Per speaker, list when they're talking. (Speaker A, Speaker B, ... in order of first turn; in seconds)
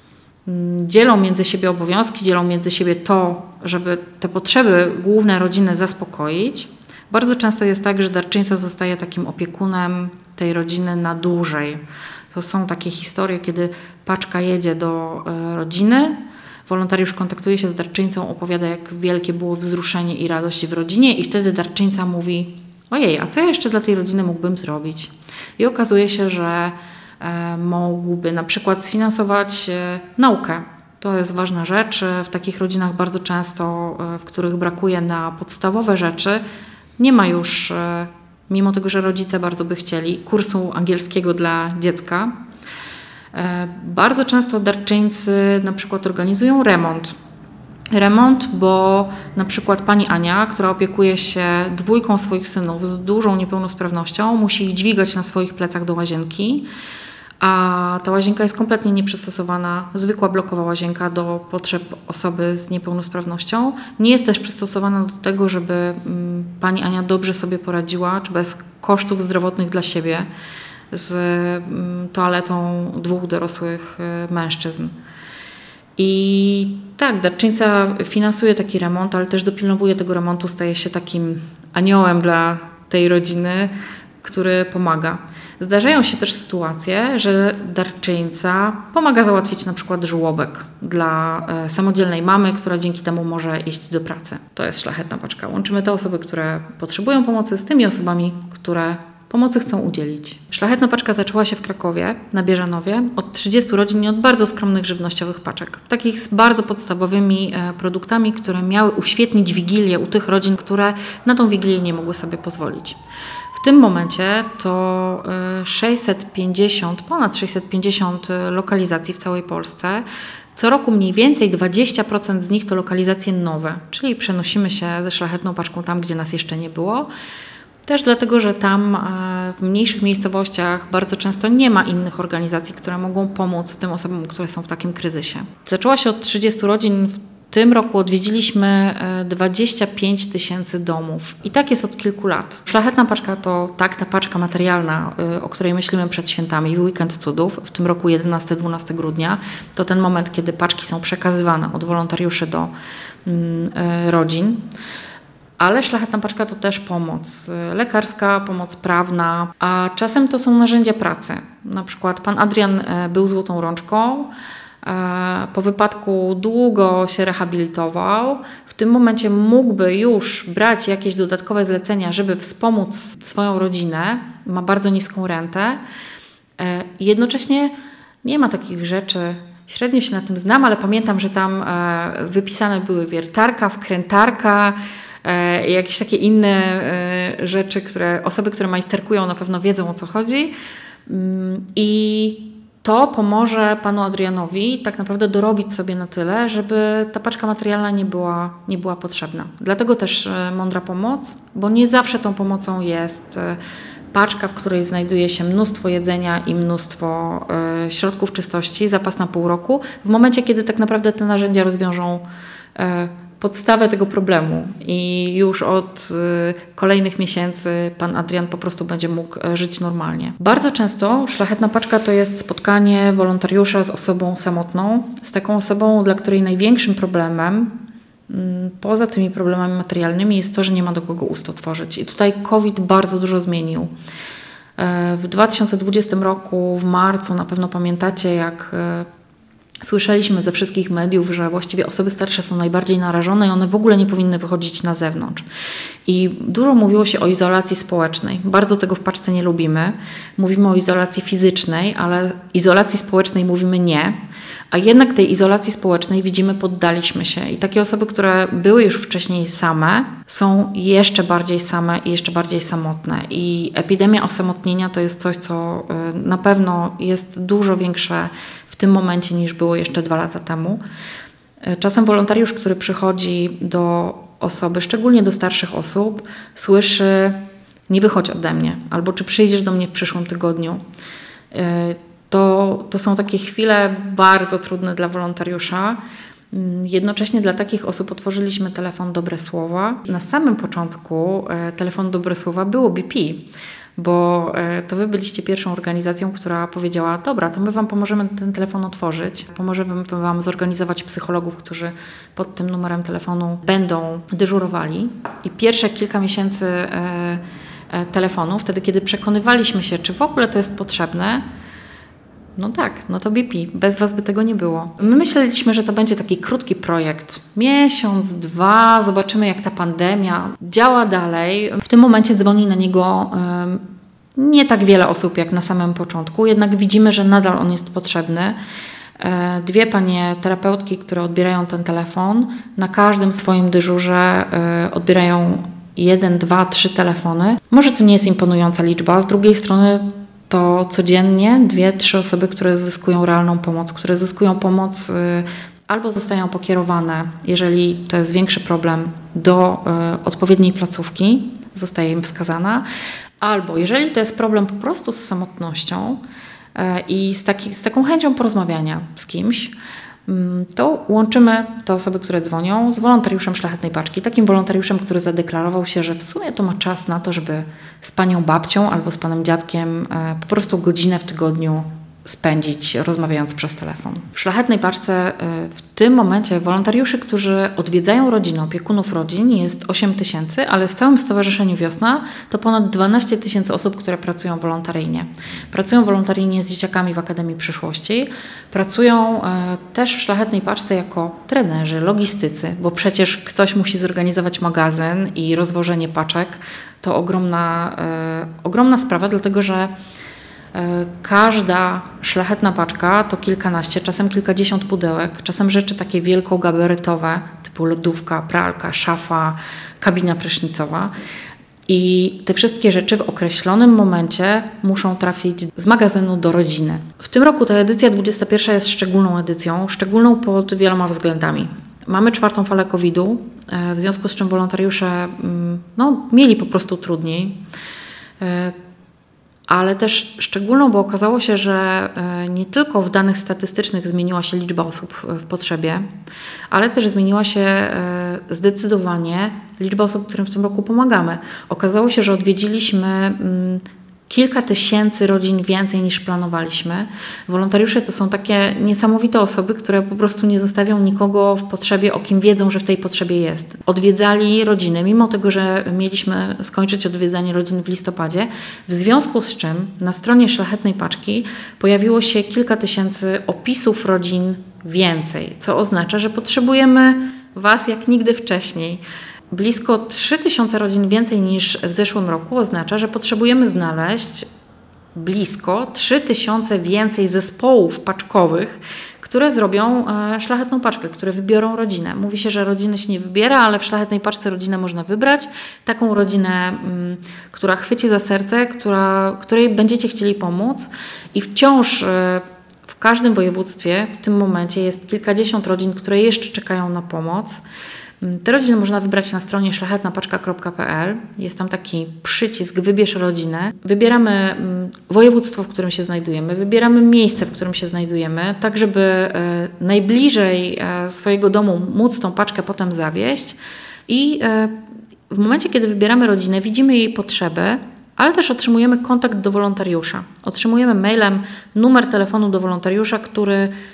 Speaker A: 0.5-36.4, 37.0-42.3, 43.3-47.2, 47.9-56.7, 57.4-70.3, 70.9-74.9, 76.0-113.0, 113.5-127.1, 127.9-152.7, 153.2-154.6, 155.6-164.3, 164.8-175.8, 176.6-190.5, 191.1-203.6, 204.1-212.2, 212.8-227.8, 228.3-233.9, 234.8-239.1, 239.8-245.5, 246.1-254.2, 254.7-270.8, 271.6-280.8, 281.5-286.0, 286.5-311.4, 312.6-323.8, 324.4-328.6, 329.2-352.9, 353.4-356.2, 356.8-359.7, 360.3-399.9, 400.7-411.1, 411.9-427.6, 428.4-428.8, 429.7-436.1, 436.7-474.5, 475.1-497.6, 498.2-513.6, 514.1-514.8, 515.3-523.7